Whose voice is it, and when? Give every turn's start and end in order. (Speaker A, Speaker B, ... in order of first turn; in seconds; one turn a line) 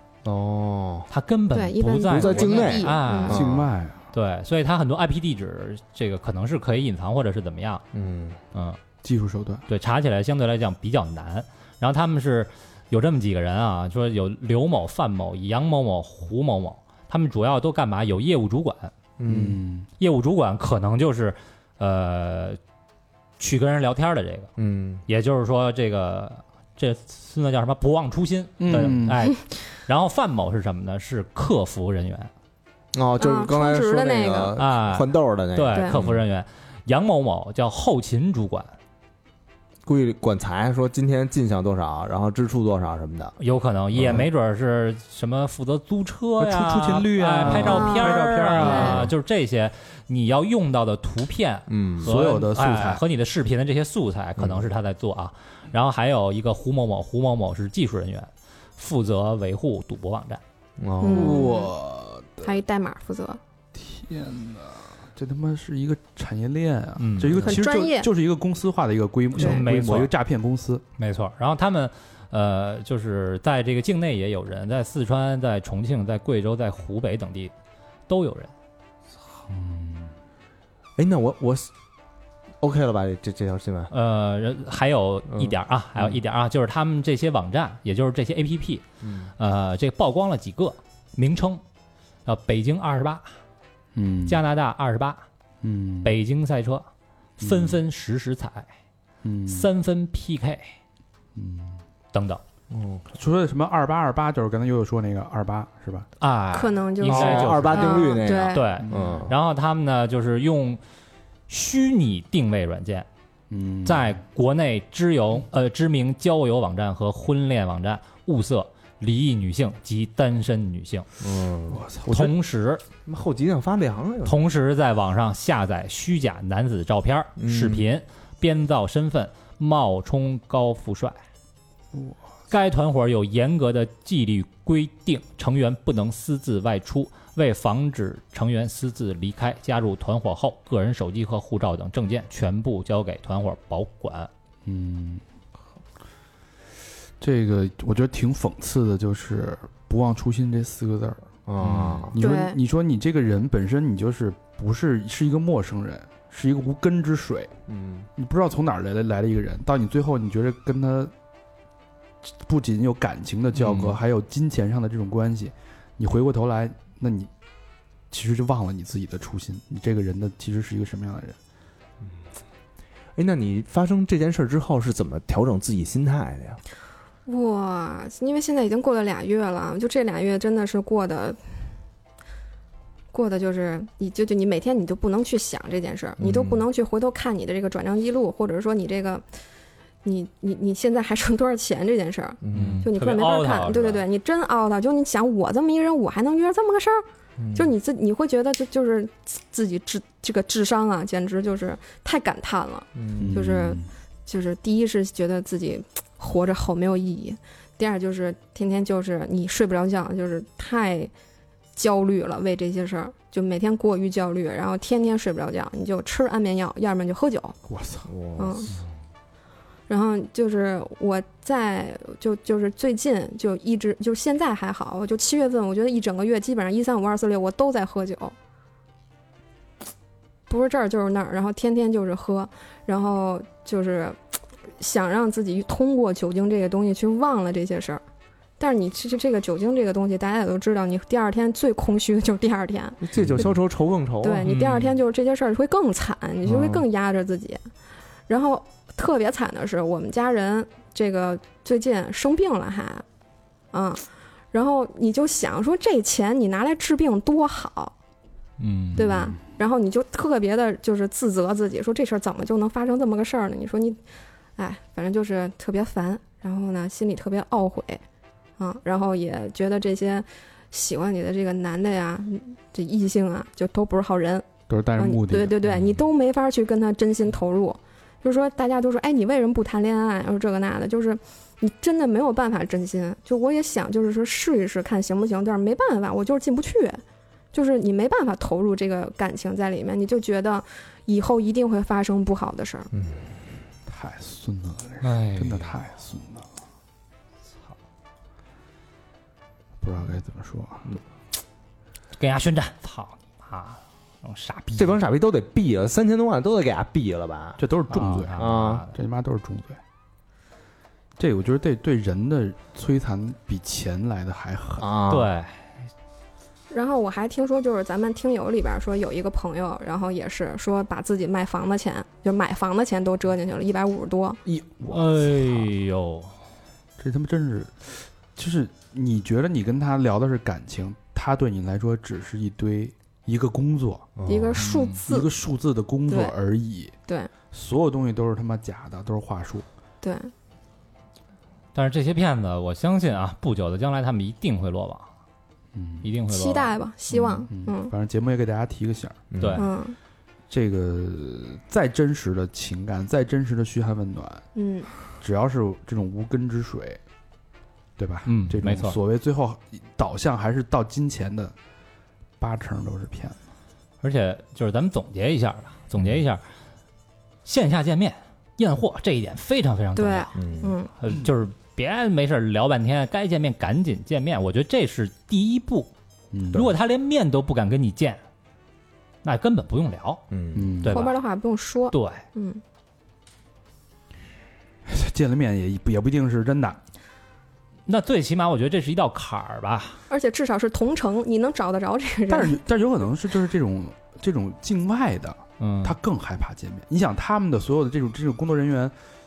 Speaker A: 0.2-1.1
Speaker B: 1.1-3.4
Speaker C: 1.5-3.3
Speaker A: 2.1-3.7
Speaker D: 3.3-4.0
Speaker B: 4.1-7.8
Speaker A: 7.9-8.4
Speaker B: 8.5-8.8
Speaker D: 9.0-9.7
Speaker B: 9.7-18.9
Speaker A: 19.2-19.6
Speaker D: 19.3-19.9
Speaker B: 20.0-22.6
Speaker B: 23.4-24.5
Speaker A: 24.6-25.0
Speaker B: 25.1-32.3
Speaker D: 28.6-29.2
Speaker A: 32.9-36.2
Speaker C: 33.2-34.5
Speaker B: 34.6-38.8
Speaker A: 39.9-43.4
Speaker B: 43.4-60.4
Speaker D: 46.4-49.1
Speaker C: 47.5-49.0
Speaker A: 51.7-52.1
Speaker D: 52.0-53.0
Speaker A: 54.4-54.7
Speaker A: 60.8-61.5
Speaker C: 61.0-61.7
Speaker D: 61.0-62.5
Speaker C: 62.4-63.4
Speaker D: 63.8-70.8
Speaker B: 67.0-67.5
Speaker C: 67.5-68.1
Speaker B: 69.4-70.1
Speaker B: 71.0-77.5
Speaker B: 78.1-78.5
Speaker A: 81.0-81.7
Speaker A: 82.6-83.9
Speaker B: 83.9-88.8
Speaker A: 89.0-89.3
Speaker B: 89.4-91.6
Speaker B: 92.2-93.3
Speaker D: 94.0-94.4
Speaker B: 94.3-95.2
Speaker D: 95.6-96.1
Speaker B: 96.0-96.9
Speaker D: 97.4-97.8
Speaker B: 97.4-98.7
Speaker D: 99.2-99.7
Speaker B: 99.5-100.8
Speaker D: 101.4-101.8
Speaker B: 102.1-102.4
Speaker A: 102.7-103.0
Speaker D: 103.1-106.1
Speaker B: 106.2-110.8
Speaker C: 106.5-108.8
Speaker A: 107.0-109.3
Speaker D: 108.8-109.2
Speaker B: 111.5-113.1
Speaker D: 113.5-114.2
Speaker B: 113.8-121.1
Speaker A: 121.2-122.3
Speaker D: 121.7-122.3
Speaker B: 122.1-122.8
Speaker A: 123.0-124.4
Speaker B: 124.2-131.2
Speaker A: 127.4-127.9
Speaker B: 132.5-144.3
Speaker D: 144.7-145.2
Speaker D: 147.2-151.2
Speaker A: 151.5-152.2
Speaker B: 151.6-152.1
Speaker D: 152.1-157.5
Speaker C: 152.2-152.6
Speaker A: 157.7-158.1
Speaker D: 158.2-161.1
Speaker D: 162.4-167.3
Speaker A: 163.6-164.0
Speaker D: 168.1-171.4
Speaker A: 173.2-176.6
Speaker C: 177.3-181.4
Speaker C: 183.1-189.2
Speaker A: 186.2-186.7
Speaker C: 190.0-197.0
Speaker A: 192.4-192.9
Speaker B: 192.5-194.0
Speaker A: 197.4-197.7
Speaker C: 197.6-211.1
Speaker A: 203.0-203.4
Speaker D: 203.2-203.9
Speaker C: 211.8-217.6
Speaker D: 217.7-218.1
Speaker A: 218.1-218.7
Speaker C: 218.4-218.7
Speaker C: 219.9-228.3
Speaker C: 230.5-234.2
Speaker C: 234.8-238.0
Speaker C: 238.6-243.1
Speaker A: 243.0-244.5
Speaker C: 244.2-247.6
Speaker B: 244.4-245.0
Speaker A: 246.4-246.9
Speaker C: 248.3-253.0
Speaker C: 253.7-257.9
Speaker B: 258.6-259.1
Speaker C: 259.0-264.0
Speaker D: 259.0-259.3
Speaker C: 264.6-268.0
Speaker C: 268.6-287.0
Speaker D: 274.7-275.6
Speaker C: 287.5-292.9
Speaker A: 292.9-293.2
Speaker D: 293.9-296.5
Speaker B: 295.0-295.7
Speaker D: 299.8-301.0
Speaker B: 302.2-305.0
Speaker A: 304.8-307.6
Speaker D: 307.6-309.8
Speaker B: 307.9-308.9
Speaker A: 308.4-308.8
Speaker D: 311.2-314.9
Speaker A: 314.8-315.3
Speaker B: 315.1-315.6
Speaker C: 316.7-324.4
Speaker D: 324.5-325.7
Speaker B: 324.9-326.4
Speaker D: 327.0-334.1
Speaker A: 334.2-334.6
Speaker C: 334.3-335.3
Speaker B: 334.6-335.0
Speaker D: 335.1-336.9
Speaker C: 336.1-336.3
Speaker D: 337.5-339.7
Speaker C: 340.0-340.3
Speaker B: 341.7-345.1
Speaker D: 345.7-346.1
Speaker B: 346.0-346.7
Speaker C: 346.3-347.9
Speaker D: 347.2-349.3
Speaker A: 349.3-349.7
Speaker B: 349.4-349.7
Speaker C: 349.6-350.0
Speaker D: 350.5-354.5
Speaker C: 354.6-354.9
Speaker D: 355.2-357.0
Speaker D: 358.0-361.5
Speaker B: 358.3-359.0
Speaker D: 362.4-363.4
Speaker B: 364.0-366.4
Speaker B: 367.4-370.3
Speaker C: 370.0-370.9
Speaker A: 370.4-370.8
Speaker B: 371.0-375.9
Speaker D: 376.3-376.7
Speaker B: 376.5-378.2
Speaker B: 379.2-380.2
Speaker A: 380.3-380.8
Speaker D: 380.5-381.0
Speaker B: 380.8-381.2
Speaker C: 380.9-382.6
Speaker B: 381.9-382.2
Speaker D: 384.9-386.8
Speaker B: 387.9-390.0
Speaker C: 390.1-392.6
Speaker D: 392.3-398.9
Speaker B: 395.6-395.9